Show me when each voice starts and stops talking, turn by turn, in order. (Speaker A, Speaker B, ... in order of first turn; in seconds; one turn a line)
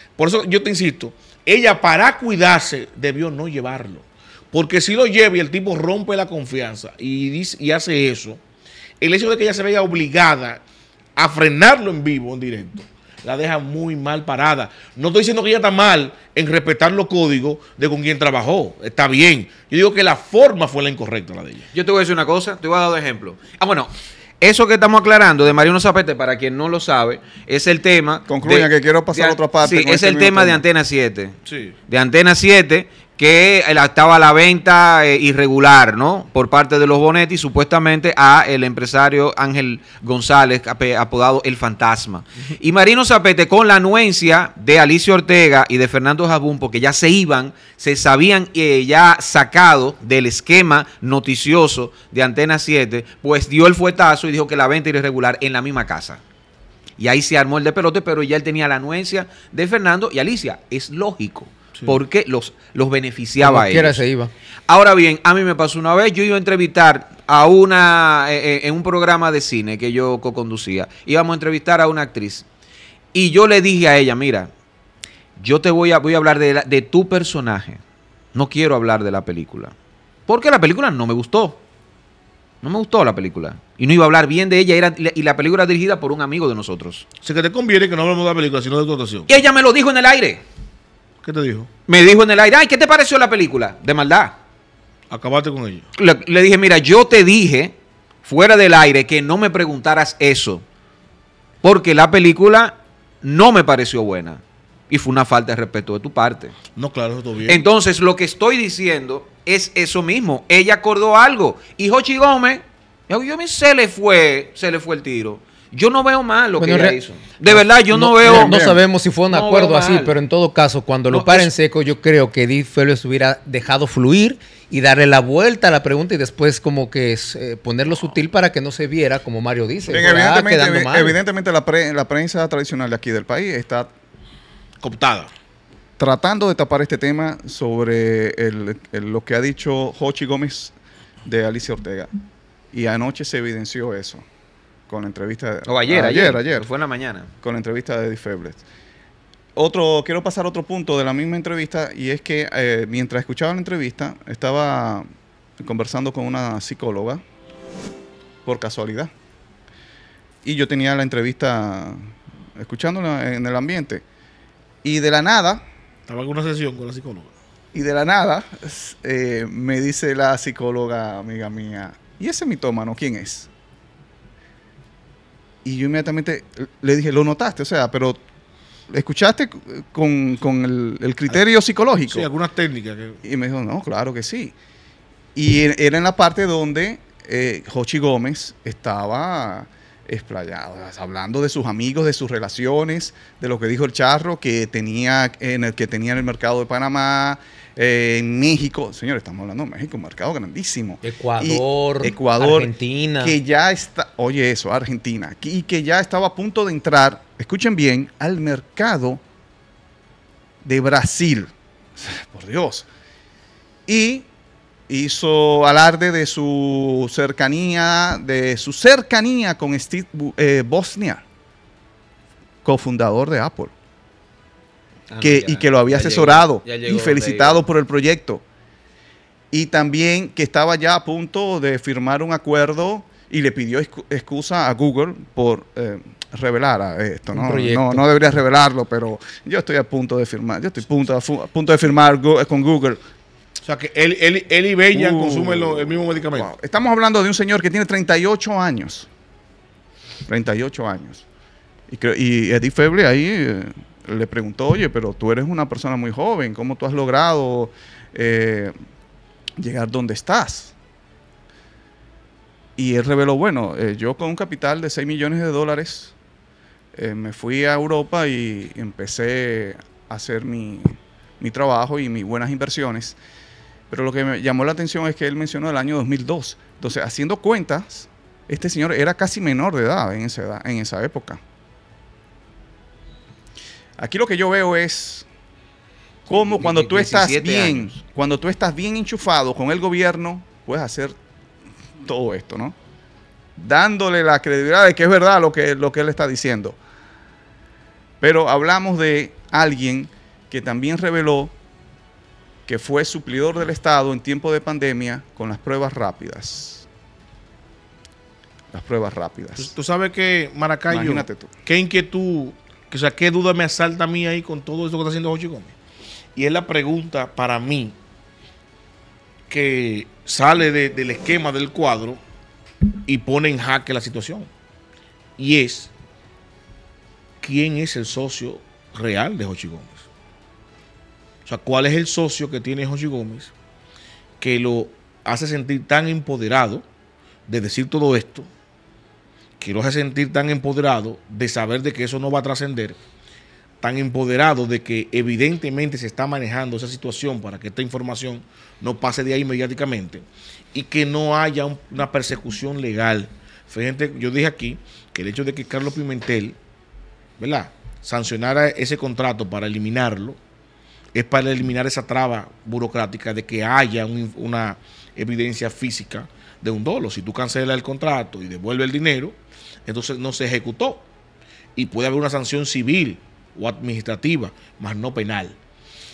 Speaker A: 0.2-8.4
Speaker A: 9.0-10.6
Speaker A: 11.2-21.6
Speaker B: 21.7-31.3
Speaker C: 28.3-30.6
Speaker A: 31.5-31.7
Speaker B: 31.9-56.2
Speaker B: 57.0-64.0
Speaker D: 63.4-64.3
Speaker B: 64.7-72.5
Speaker B: 73.1-74.5
Speaker B: 75.4-77.8
Speaker B: 78.3-79.7
Speaker B: 80.3-81.6
Speaker B: 82.6-87.0
Speaker A: 87.2-89.3
Speaker B: 89.3-90.4
Speaker A: 91.2-91.7
Speaker B: 91.9-94.4
Speaker A: 95.1-95.8
Speaker B: 96.0-100.6
Speaker B: 101.6-106.5
Speaker A: 106.8-107.6
Speaker B: 107.5-118.7
Speaker D: 116.6-131.2
Speaker C: 118.2-118.8
Speaker B: 119.3-120.1
Speaker A: 121.1-121.5
Speaker C: 129.9-133.9
Speaker A: 134.8-135.3
Speaker C: 136.0-140.7
Speaker C: 141.2-142.1
Speaker C: 142.7-144.2
Speaker C: 144.9-146.7
Speaker B: 145.7-147.3
Speaker C: 147.4-148.6
Speaker C: 149.6-155.0
Speaker C: 155.6-157.2
Speaker C: 158.4-159.1
Speaker C: 160.4-164.0
Speaker C: 164.8-165.6
Speaker A: 166.1-167.3
Speaker C: 167.7-173.5
Speaker C: 175.6-178.2
Speaker C: 178.9-182.3
Speaker A: 182.1-183.2
Speaker C: 183.2-184.5
Speaker C: 185.3-209.2
Speaker D: 201.0-203.4
Speaker C: 210.6-212.9
Speaker C: 213.9-214.3
Speaker C: 214.9-221.2
Speaker C: 222.6-223.7
Speaker B: 225.1-227.6
Speaker C: 225.2-228.4
Speaker C: 229.5-243.0
Speaker D: 237.3-238.0
Speaker A: 243.6-246.5
Speaker C: 244.9-249.1
Speaker C: 250.3-251.2
Speaker C: 251.9-258.7
Speaker C: 259.6-260.7
Speaker C: 262.8-266.1
Speaker C: 267.0-273.2
Speaker C: 273.9-281.4
Speaker C: 284.0-285.3
Speaker C: 286.3-291.1
Speaker B: 286.3-287.9
Speaker C: 292.0-292.8
Speaker C: 293.6-296.8
Speaker C: 298.2-301.5
Speaker C: 302.7-306.9
Speaker C: 308.7-309.7
Speaker A: 309.6-315.7
Speaker C: 310.9-311.5
Speaker A: 316.4-318.0
Speaker A: 319.5-322.2
Speaker A: 323.1-324.5
Speaker A: 325.4-325.9
Speaker A: 327.4-330.1
Speaker A: 331.5-333.5
Speaker A: 334.4-336.8
Speaker A: 337.5-338.5
Speaker A: 339.6-343.0
Speaker A: 343.8-356.6
Speaker A: 357.4-360.4
Speaker A: 361.1-371.0
Speaker A: 371.8-375.6